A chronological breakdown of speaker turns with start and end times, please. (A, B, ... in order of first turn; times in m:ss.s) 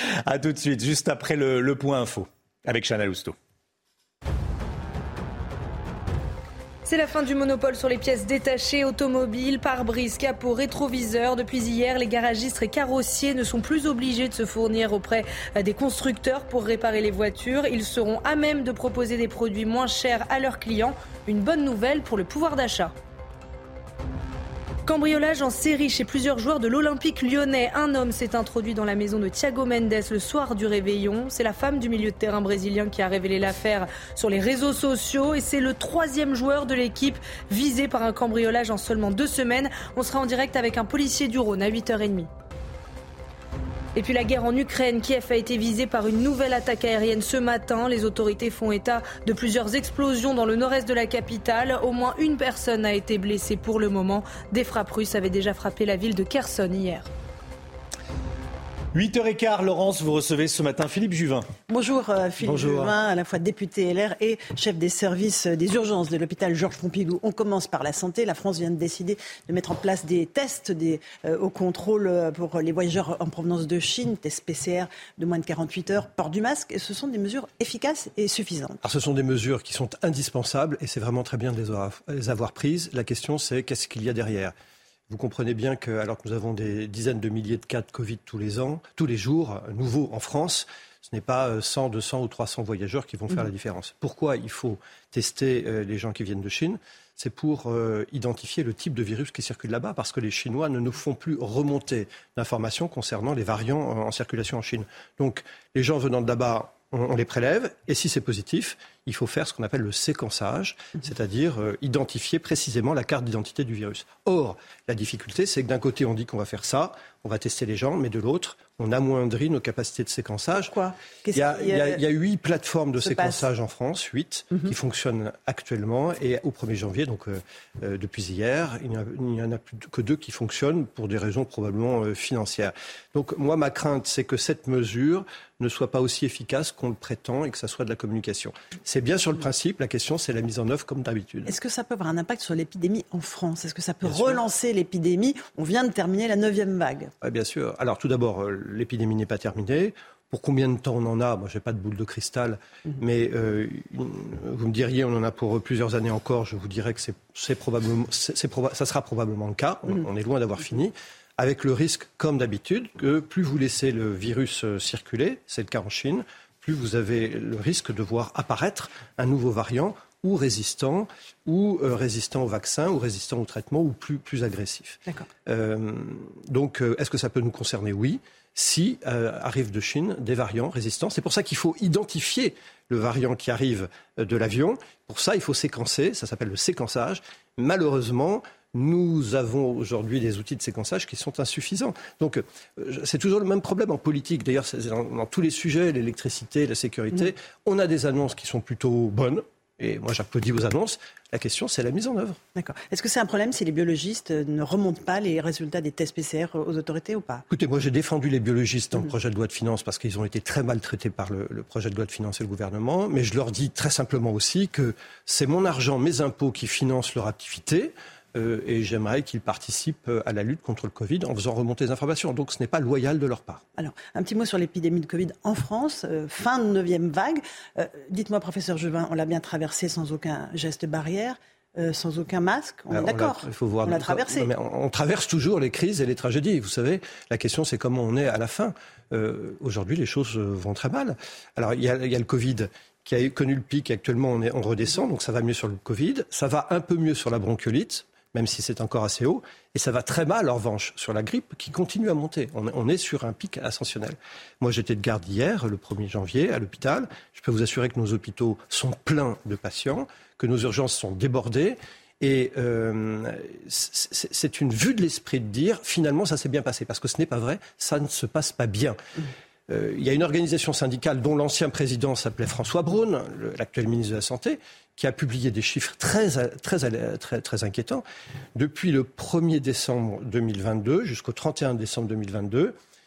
0:00.2-0:03.4 A
0:06.8-0:22.9 B
0:24.9-0:42.3 B
0:44.0-0:57.1 B
0:58.9-1:01.5 A
1:01.7-1:18.8 C
1:18.8-1:24.5 D
1:25.1-2:00.7 D
2:00.6-2:02.0 C
2:01.3-2:21.5 D
2:03.0-2:03.4 C
2:21.4-2:27.1 C
2:24.0-2:24.4 D
2:27.2-3:22.4 D
3:22.6-3:27.4 C
3:27.5-3:43.6 D
3:43.7-3:54.5 C
3:52.9-4:29.0 D
4:29.7-4:38.0 D
4:38.6-4:42.7 D